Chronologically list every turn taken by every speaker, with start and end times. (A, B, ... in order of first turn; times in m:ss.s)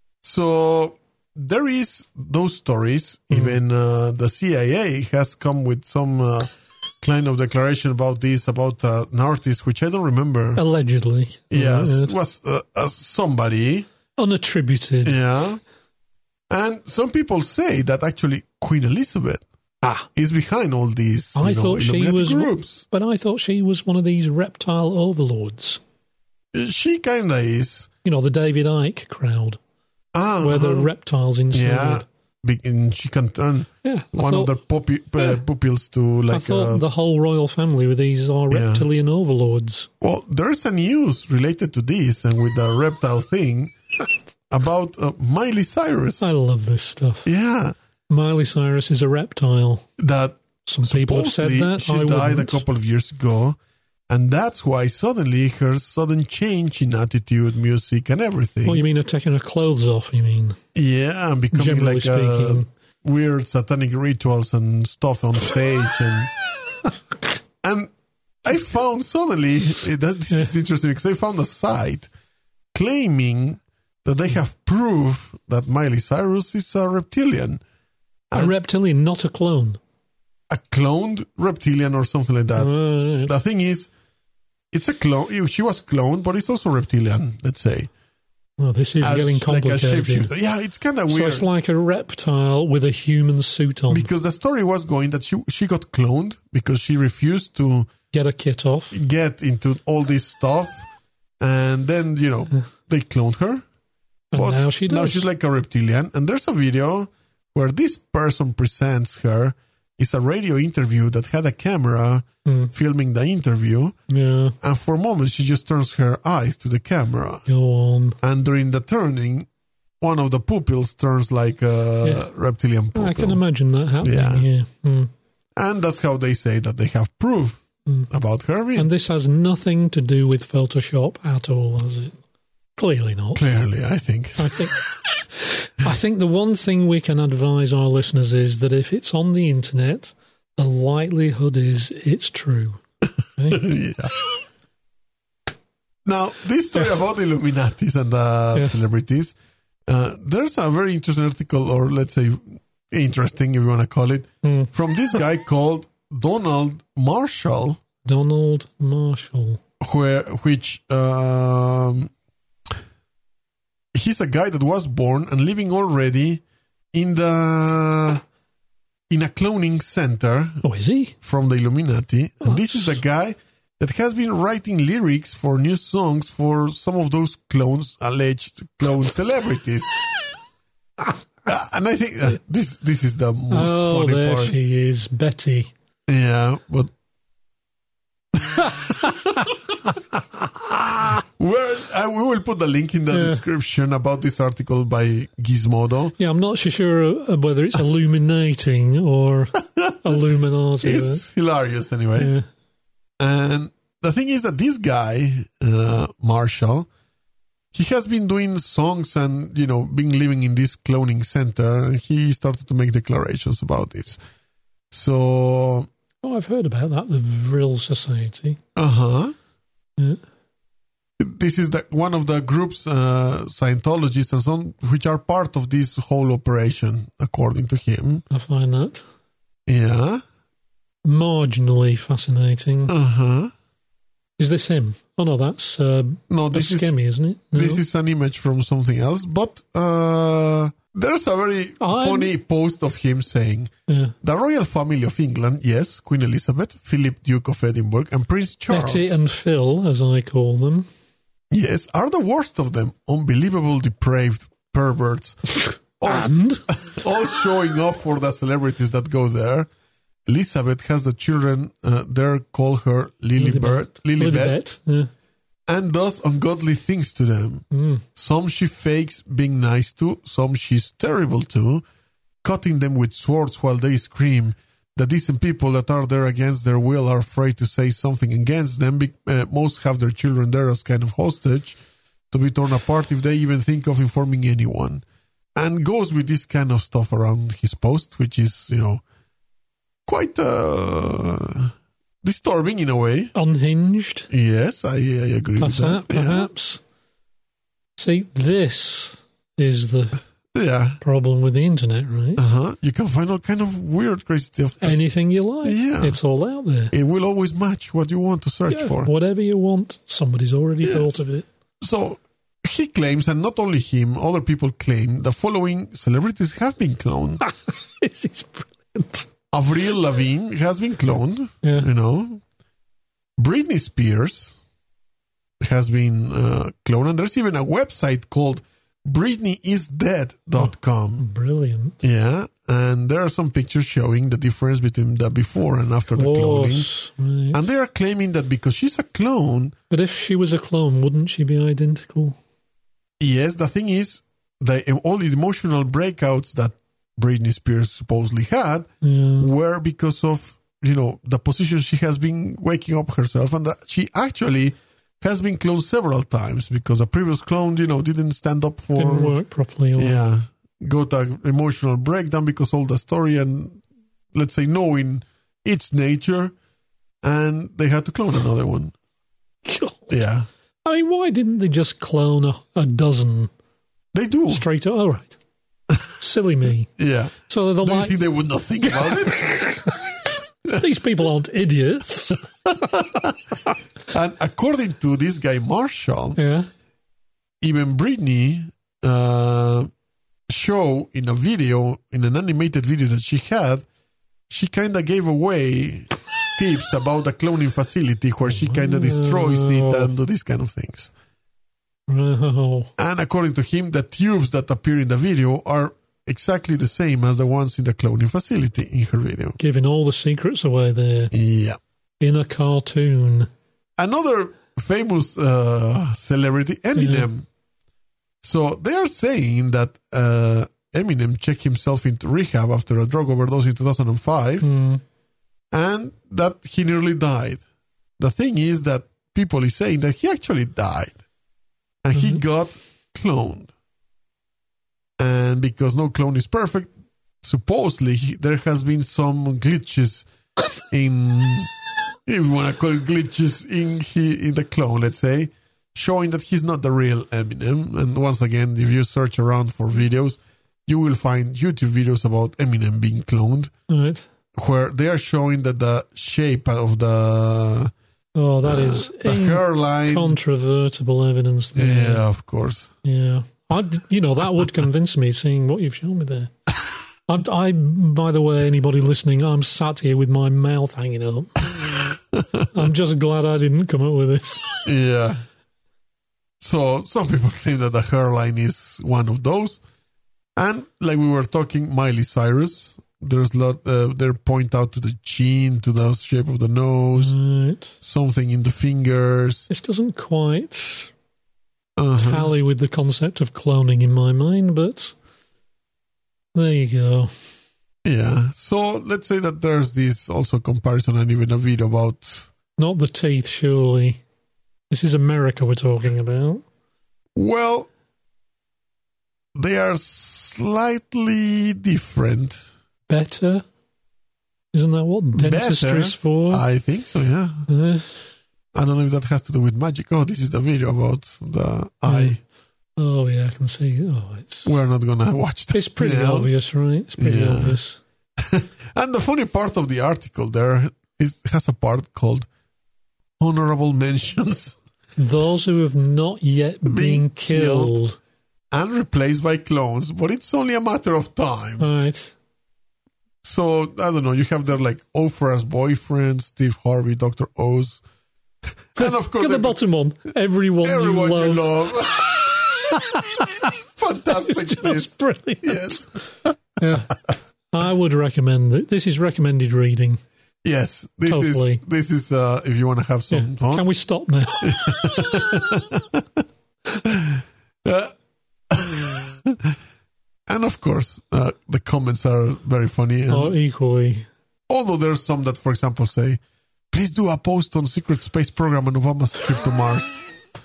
0:00.2-0:06.5 A
0:07.0-0:10.6 A
0:10.6-0:12.1 B
0:11.5-0:13.9 A
0:14.2-0:15.2 B
0:15.0-0:15.6 A
0:16.5-0:19.4 A
0:19.8-0:20.1 B
0:20.1-0:22.8 A
0:21.3-0:25.8 B
0:26.5-0:27.9 A
0:28.0-0:29.6 B
0:30.1-0:30.9 A
0:30.4-0:32.0 B
0:31.5-0:36.8 A
0:33.8-0:34.5 B
0:36.3-0:39.9 B
0:38.5-0:38.8 A
0:40.0-0:43.7 A
0:44.5-0:46.2 A
0:46.2-0:47.3 B
0:47.2-0:47.7 A
0:48.1-0:49.9 B
0:50.0-0:53.6 A
0:50.6-0:52.6 B
0:54.1-0:58.8 A
0:58.6-1:00.6 B
1:00.7-1:06.3 A
1:01.5-1:02.7 B
1:07.6-1:07.9 A
1:08.4-1:12.1 A
1:12.7-1:17.6 A
1:18.3-1:19.8 B
1:20.5-1:23.9 A
1:22.6-1:23.3 B
1:24.7-1:27.9 A
1:28.6-1:30.3 B
1:29.0-1:31.5 A
1:31.1-1:34.1 B
1:33.9-1:37.9 A
1:38.1-1:39.0 B
1:38.9-1:40.8 A
1:41.4-1:43.6 A
1:44.3-1:45.3 B
1:44.3-1:54.0 A
1:52.4-1:52.7 B
1:54.1-1:54.6 B
1:54.6-1:57.4 A
1:57.5-1:58.2 B
1:58.2-1:59.5 A
2:00.0-2:03.4 A
2:02.9-2:05.1 B
2:04.0-2:04.5 A
2:05.6-2:08.9 A
2:07.8-2:08.1 B
2:08.8-2:12.2 B
2:12.8-2:13.4 B
2:13.3-2:14.7 A
2:14.4-2:22.8 B
2:23.4-2:23.6 B
2:23.5-2:24.2 A
2:26.0-2:29.3 A
2:29.9-2:37.8 A
2:34.4-2:34.7 B
2:38.0-2:39.6 B
2:39.8-2:42.1 A
2:43.9-2:46.4 A
2:46.9-2:48.2 A
2:49.1-2:50.6 A
2:50.6-2:51.1 B
2:51.2-3:00.0 A
2:52.4-2:53.0 B
3:01.4-3:04.6 A
3:03.5-3:05.7 B
3:06.1-3:06.9 A
3:08.4-3:09.1 A
3:08.6-3:11.2 B
3:11.2-3:16.1 A
3:13.1-3:13.4 B
3:16.2-3:21.2 B
3:19.8-3:20.1 A
3:20.8-3:22.3 A
3:22.2-3:22.4 B
3:23.2-3:26.9 A
3:27.7-3:34.2 A
3:34.9-3:35.9 A
3:36.2-3:38.6 B
3:38.8-3:39.3 A
3:41.2-3:48.2 A
3:48.3-3:49.0 B
3:49.7-3:50.2 A
3:51.0-3:52.9 B
3:52.9-3:53.5 A
3:54.4-3:57.8 B
3:56.3-3:57.0 A
3:57.5-4:03.7 A
4:01.8-4:02.3 B
4:03.9-4:04.1 B
4:04.2-4:09.2 A
4:08.7-4:10.9 B
4:11.5-4:15.4 A
4:15.5-4:16.7 B
4:16.0-4:19.7 A
4:20.2-4:24.6 A
4:23.4-4:25.1 B
4:25.7-4:31.8 A
4:27.7-4:28.0 B
4:32.4-4:41.8 A
4:42.3-4:45.0 A
4:45.5-4:49.0 A
4:50.0-4:53.3 A
4:53.3-4:54.3 B
4:54.3-4:56.5 A
4:55.6-4:56.8 B
4:58.0-5:00.2 B
5:00.5-5:01.0 A
5:01.0-5:02.4 B
5:02.4-5:05.0 A
5:04.8-5:06.9 B
5:05.6-5:06.2 A
5:06.9-5:09.1 A
5:08.7-5:11.5 B
5:10.8-5:11.2 A
5:11.8-5:17.4 A
5:17.4-5:19.3 B
5:19.5-5:22.4 A
5:21.6-5:21.9 B
5:23.4-5:24.6 A
5:25.6-5:31.2 A
5:30.6-5:32.0 B
5:32.0-5:36.9 A
5:36.1-5:37.6 B
5:37.5-5:39.7 A
5:39.9-5:42.4 B
5:43.2-5:48.9 A
5:49.0-5:49.5 B
5:49.4-5:59.4 A
5:59.0-6:00.2 B
6:00.0-6:03.8 A
6:04.3-6:06.5 A
6:07.2-6:08.9 A
6:09.6-6:10.2 B
6:10.1-6:10.5 A
6:10.8-6:13.5 B
6:14.1-6:14.6 A
6:14.5-6:15.4 B
6:16.2-6:16.9 B
6:17.0-6:19.6 A
6:17.4-6:18.2 B
6:18.8-6:20.0 B
6:20.7-6:23.3 B
6:22.6-6:23.3 A
6:24.1-6:26.4 A
6:26.4-6:26.7 B
6:27.6-6:29.9 A
6:30.5-6:33.8 A
6:34.5-6:41.1 A
6:38.5-6:40.1 B
6:42.1-6:42.9 B
6:43.0-6:49.6 A
6:49.6-6:51.3 B
6:51.3-6:51.8 A
6:52.2-6:53.5 B
6:54.0-6:57.4 A
6:57.0-6:57.3 B
6:58.4-7:04.7 A
7:04.6-7:05.0 B
7:05.7-7:07.6 A
7:08.2-7:11.2 A
7:12.0-7:13.7 A
7:12.1-7:12.4 B
7:15.2-7:16.9 A
7:17.4-7:20.3 A
7:20.9-7:21.7 A
7:22.2-7:33.7 A
7:33.9-7:34.2 B
7:34.5-7:37.9 A
7:38.3-7:42.2 B
7:38.6-7:40.4 A
7:41.7-7:42.9 A
7:43.0-7:46.5 B
7:47.3-7:51.9 B
7:52.3-7:52.7 A
7:52.7-7:54.7 B
7:54.8-7:55.4 A
7:56.6-7:59.8 A
8:00.6-8:07.3 A
8:07.1-8:08.0 B
8:08.0-8:09.7 A
8:09.7-8:11.1 B
8:12.0-8:12.5 A
8:12.2-8:15.2 B
8:16.5-8:17.3 B
8:18.0-8:22.5 A
8:22.8-8:24.2 B
8:24.9-8:26.6 B
8:27.3-8:27.9 A
8:29.5-8:32.6 A
8:33.1-8:33.6 B
8:34.7-8:36.6 B
8:35.4-8:37.7 A
8:37.7-8:38.2 B
8:38.7-8:42.4 A
8:42.1-8:42.4 B
8:43.0-8:44.7 B
8:44.6-8:46.5 A
8:45.7-8:48.0 B
8:47.2-8:47.8 A
8:48.4-8:52.5 A
8:53.4-8:54.8 A
8:55.2-8:58.2 B
8:56.8-8:58.0 A
8:58.7-9:01.9 A
9:01.8-9:02.3 B
9:03.4-9:08.0 A
9:08.9-9:09.8 A
9:09.0-9:11.8 B
9:10.8-9:13.0 A
9:12.9-9:13.7 B
9:13.8-9:16.5 A
9:14.3-9:16.1 B
9:16.8-9:17.2 B
9:17.7-9:20.2 B
9:20.6-9:23.8 A
9:21.3-9:21.8 B
9:23.3-9:25.4 B
9:24.6-9:26.2 A
9:27.0-9:28.1 A
9:28.7-9:29.8 A
9:30.5-9:33.5 A
9:33.3-9:34.3 B
9:34.7-9:36.4 A
9:36.9-9:40.2 A